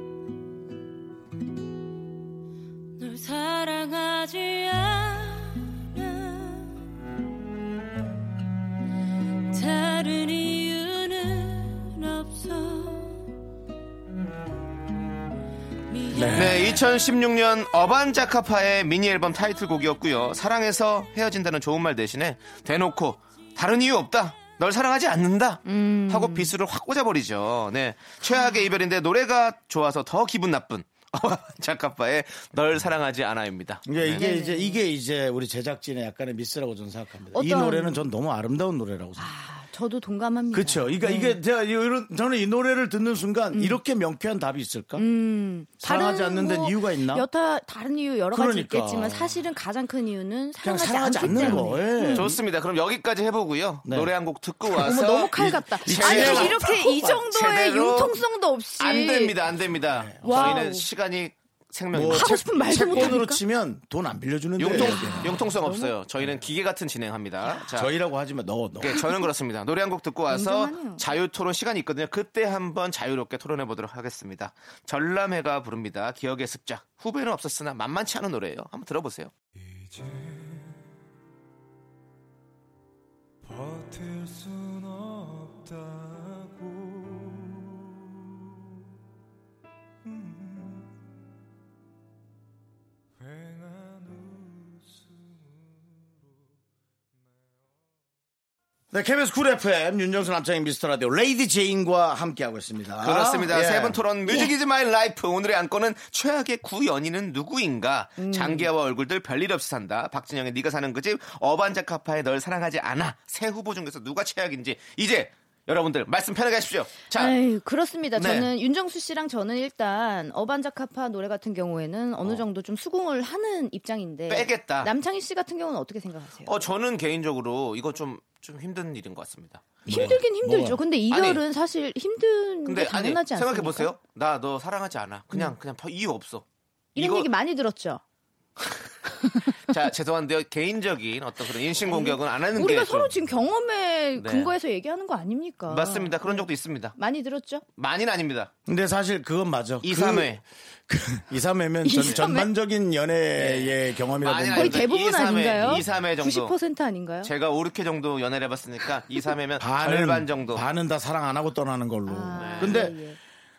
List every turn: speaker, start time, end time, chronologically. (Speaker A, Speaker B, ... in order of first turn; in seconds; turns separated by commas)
Speaker A: 3.0-6.7, Speaker A: 9.5-13.2, Speaker A: 16.0-16.7, Speaker B: 16.1-16.8, Speaker C: 16.3-34.2, Speaker D: 25.7-26.5, Speaker D: 28.2-28.7, Speaker B: 33.9-39.3, Speaker D: 34.1-34.8, Speaker D: 37.3-38.0, Speaker D: 39.2-41.4, Speaker B: 40.5-45.0, Speaker D: 43.5-43.8, Speaker D: 45.0-52.3, Speaker B: 45.8-47.3, Speaker B: 48.3-49.4, Speaker B: 50.6-52.4, Speaker C: 51.4-56.7, Speaker B: 53.9-54.1, Speaker D: 54.7-59.4, Speaker B: 55.4-57.2, Speaker C: 57.3-58.2, Speaker C: 58.8-63.2, Speaker B: 59.9-60.7, Speaker D: 60.2-60.9, Speaker B: 61.9-65.4, Speaker D: 62.0-63.4, Speaker C: 64.6-67.9, Speaker D: 64.7-66.0, Speaker B: 67.7-69.1, Speaker C: 68.8-79.3, Speaker D: 70.3-71.1, Speaker E: 79.7-80.5, Speaker E: 83.4-87.5, Speaker E: 93.2-94.9, Speaker B: 98.9-104.0, Speaker C: 103.0-117.4, Speaker D: 108.2-108.7, Speaker D: 117.1-126.6, Speaker C: 118.1-118.5, Speaker C: 124.3-124.9, Speaker C: 126.5-130.2, Speaker B: 129.9-130.8, Speaker D: 129.9-133.9, Speaker C: 131.1-131.4, Speaker C: 132.7-136.4, Speaker D: 136.9-138.0, Speaker C: 137.0-137.3, Speaker D: 139.3-139.7, Speaker C: 139.7-143.1, Speaker D: 141.8-147.6, Speaker C: 144.2-144.5, Speaker C: 145.7-147.0, Speaker C: 147.8-148.5, Speaker B: 148.7-154.9, Speaker C: 149.8-150.4, Speaker D: 151.8-152.5, Speaker C: 153.4-156.6, Speaker D: 154.5-157.3, Speaker C: 157.2-160.7, Speaker B: 159.6-163.0, Speaker D: 162.1-163.2, Speaker C: 162.3-162.9